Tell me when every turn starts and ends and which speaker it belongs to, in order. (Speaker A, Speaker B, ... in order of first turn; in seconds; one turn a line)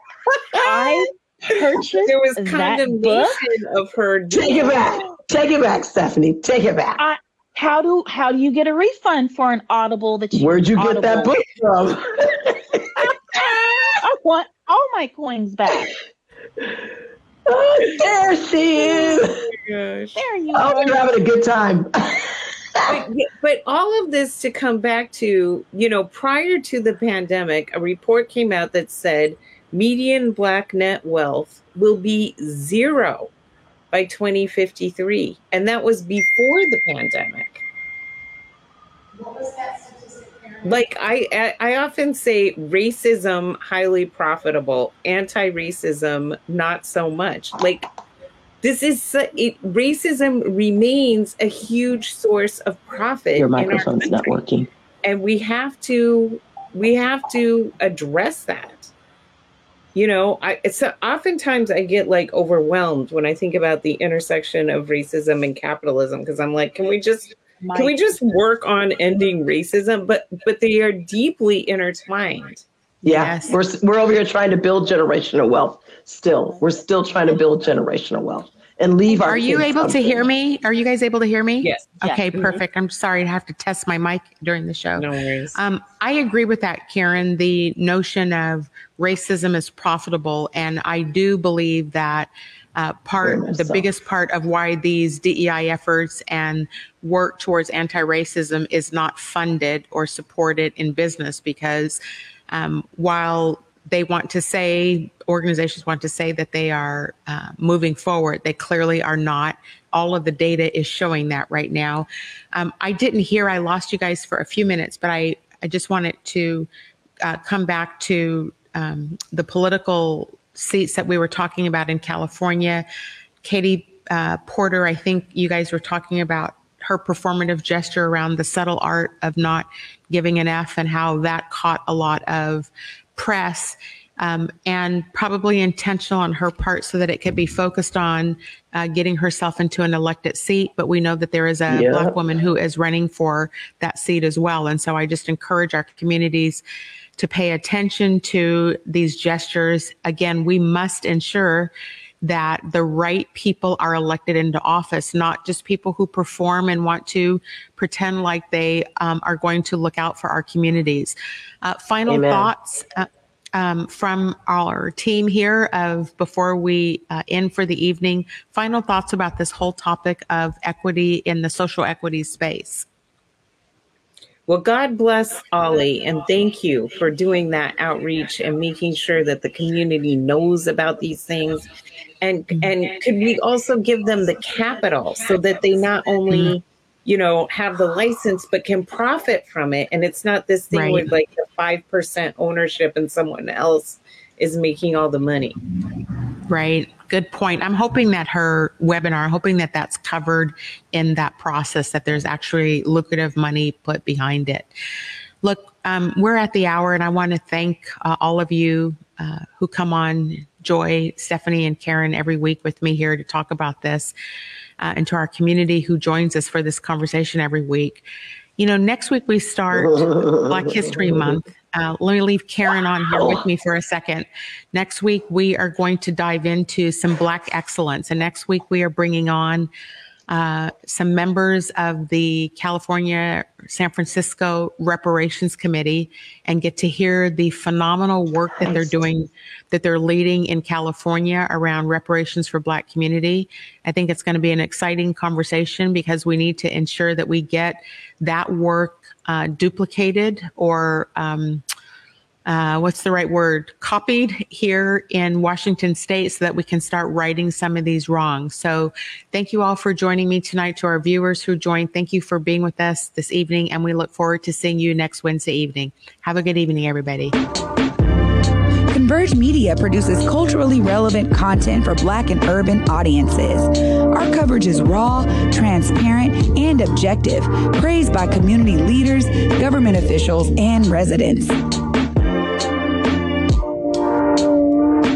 Speaker A: 0.6-3.4
Speaker B: 0.7-1.0
Speaker B: 2.0-4.9
Speaker C: 4.3-7.0
Speaker A: 7.0-11.4
Speaker C: 10.3-13.9
Speaker A: 13.3-15.9
Speaker C: 17.5-19.4
Speaker B: 18.8-20.2
Speaker A: 20.1-21.1
Speaker C: 20.5-23.0
Speaker B: 22.9-33.3
Speaker B: 33.9-37.6
Speaker D: 39.3-40.5
Speaker B: 40.6-47.9
Speaker B: 48.6-54.4
Speaker C: 53.3-54.7
Speaker B: 55.0-58.9
Speaker B: 59.9-72.6
Speaker D: 73.0-73.5
Speaker C: 73.0-80.2
Speaker D: 79.1-116.7
Speaker B: 81.6-82.6
Speaker B: 85.0-85.6
Speaker C: 93.2-93.9
Speaker D: 117.2-122.8
Speaker D: 123.4-146.6
Speaker C: 141.7-142.1
Speaker D: 147.2-151.7
Speaker D: 152.2-172.8
Speaker C: 162.1-162.5
Speaker B: 174.5-181.7
Speaker B: 182.2-195.6
Speaker D: 186.3-186.6
Speaker D: 190.7-191.1
Speaker D: 196.5-204.7
Speaker D: 205.4-214.1
Speaker D: 214.8-218.0
Speaker D: 218.6-229.7
Speaker C: 219.7-221.4
Speaker C: 223.1-223.4
Speaker D: 230.3-251.6
Speaker D: 252.4-267.4
Speaker E: 268.9-281.6